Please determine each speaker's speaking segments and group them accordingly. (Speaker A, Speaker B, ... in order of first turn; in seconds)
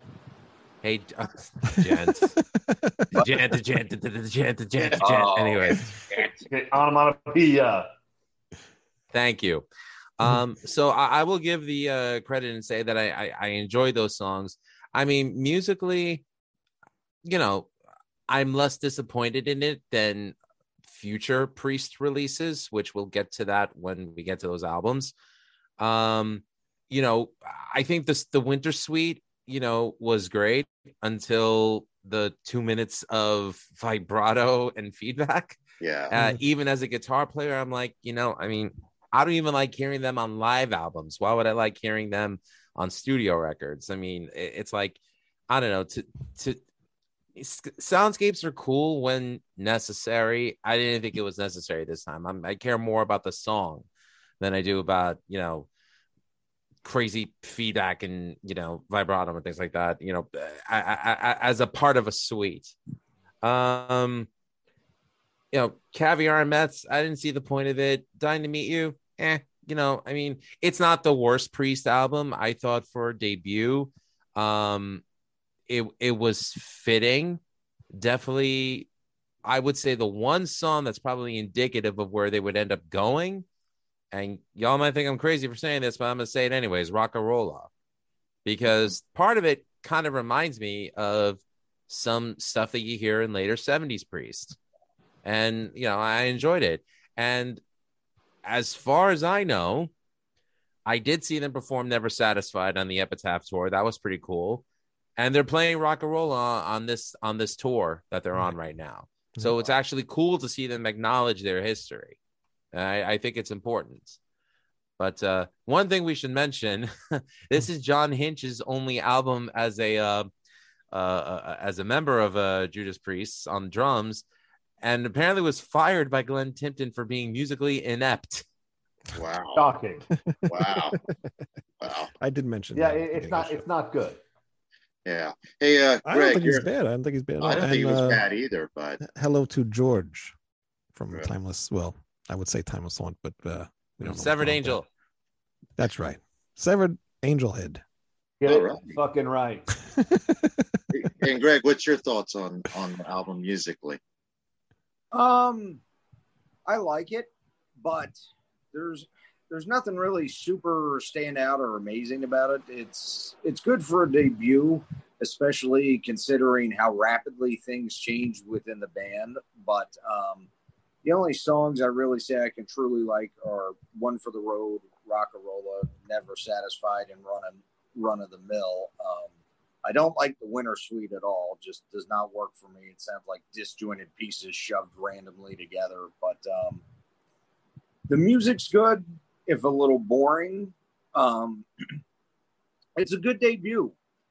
Speaker A: 0.8-2.4, 3.1-5.9, 9.1-9.7, 10.2-16.2, 17.2-17.7, 18.3-20.4, 20.9-25.1, 25.8-35.6, 36.1-46.6, 47.4-53.9, 54.4-55.7, 56.8-62.7, 63.4-64.3, 65.5-75.0, 75.7-77.4, 77.9-78.9, 79.5-83.5, 84.1-87.7, 88.5-94.6, 95.2-97.6, 98.4-99.9, 100.9-104.6, 105.2-112.2, 112.7-114.2, 115.0-120.3, 120.9-124.2, 124.8-128.4, 144.0-144.9
Speaker B: 1.7-3.1, 36.1-36.4, 109.4-109.7, 130.2-130.9, 132.2-133.6, 136.1-138.2, 139.0-140.3, 140.9-144.8, 145.8-147.8, 149.9-150.6
Speaker C: 5.0-5.7, 155.1-155.8, 156.7-158.2, 158.7-170.5, 171.0-179.3, 179.8-186.8, 188.1-192.0, 193.0-193.9
Speaker D: 6.1-6.5, 35.8-36.1, 129.1-129.7, 130.5-131.0, 131.8-132.1, 135.1-136.7, 137.4-139.0, 148.5-149.0, 150.9-154.0
Speaker E: 6.5-7.9, 129.6-130.1, 132.8-134.2, 148.4-149.7